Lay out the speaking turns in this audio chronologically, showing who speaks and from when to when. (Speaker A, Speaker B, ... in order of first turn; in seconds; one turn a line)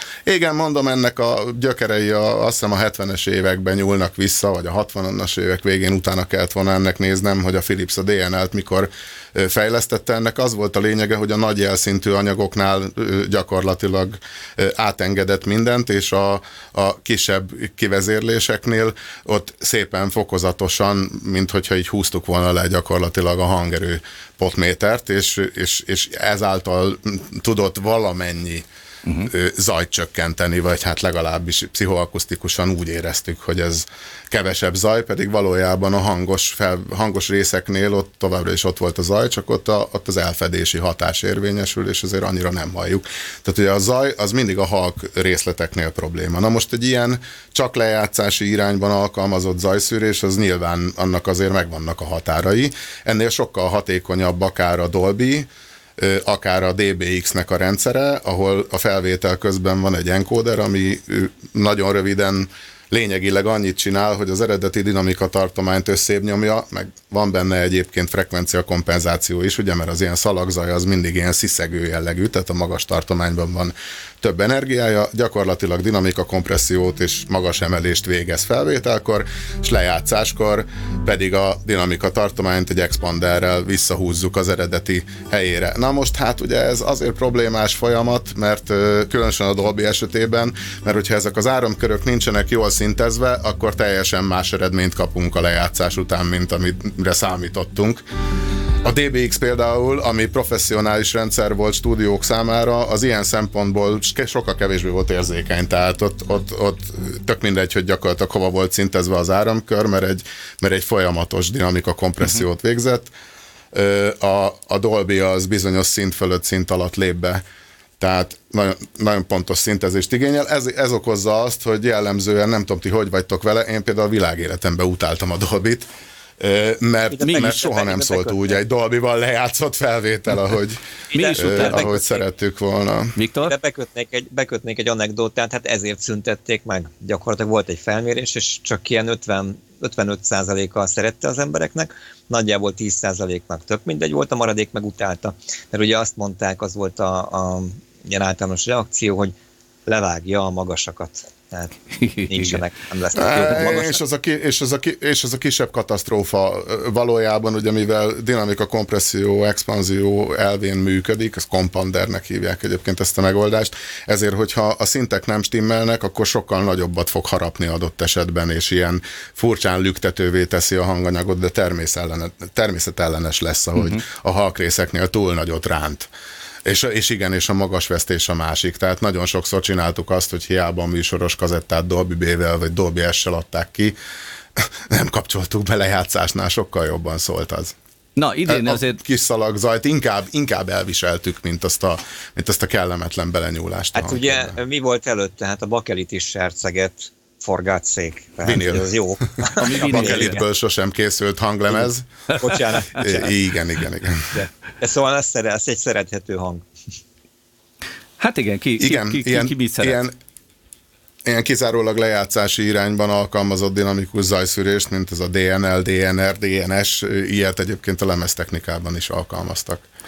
Speaker A: 0.3-28.7
Speaker A: 29.2-98.0
Speaker A: 98.8-113.1
Speaker A: 113.7-117.4
Speaker A: 118.0-125.9
Speaker A: 126.4-130.8
Speaker B: 127.1-128.6
Speaker C: 131.1-131.9
Speaker B: 131.1-132.2
Speaker A: 131.3-133.1
Speaker C: 133.2-133.5
Speaker B: 133.5-149.3
Speaker B: 149.9-151.8
Speaker C: 152.0-152.6
Speaker B: 152.3-154.0
Speaker A: 153.1-176.1
Speaker C: 173.8-174.0
Speaker A: 176.7-183.9
Speaker A: 184.6-187.8
Speaker C: 188.2-189.0
Speaker A: 188.5-194.6
Speaker B: 193.9-200.4
Speaker A: 198.4-202.1
Speaker C: 199.6-200.4
Speaker B: 202.4-203.4
Speaker A: 203.0-204.3
Speaker B: 204.3-206.7
Speaker C: 208.2-210.1
Speaker A: 208.8-210.2
Speaker A: 211.3-219.8